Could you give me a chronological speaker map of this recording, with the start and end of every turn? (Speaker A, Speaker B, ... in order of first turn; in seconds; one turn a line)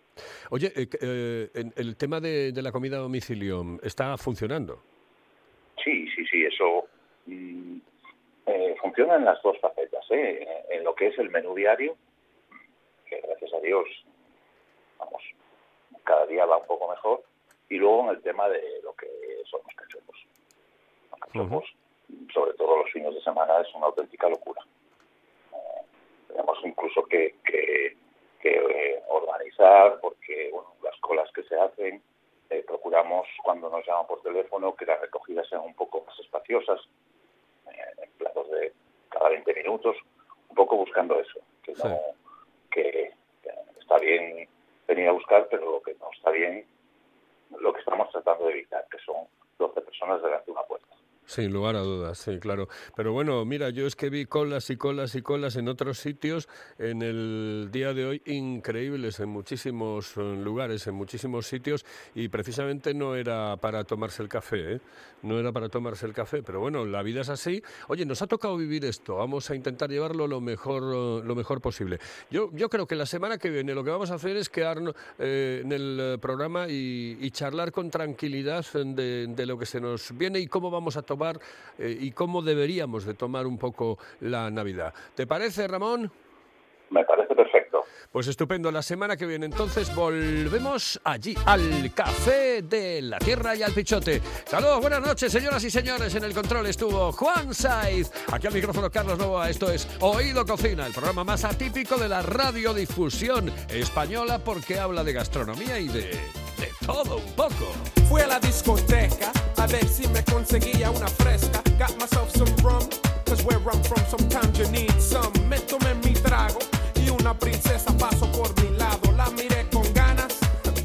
Speaker A: 0.2-4.8
Speaker B: 5.8-7.8
Speaker B: 8.5-12.0
Speaker B: 13.1-14.0
Speaker B: 15.0-15.3
Speaker B: 16.0-20.2
Speaker B: 21.1-24.6
Speaker A: 21.3-21.6
Speaker B: 26.3-36.9
Speaker B: 37.7-40.0
Speaker B: 40.5-42.1
Speaker B: 42.7-46.6
Speaker B: 47.5-50.9
Speaker A: 51.3-86.1
Speaker B: 86.9-87.9
Speaker A: 88.1-107.9
Speaker C: 108.0-120.5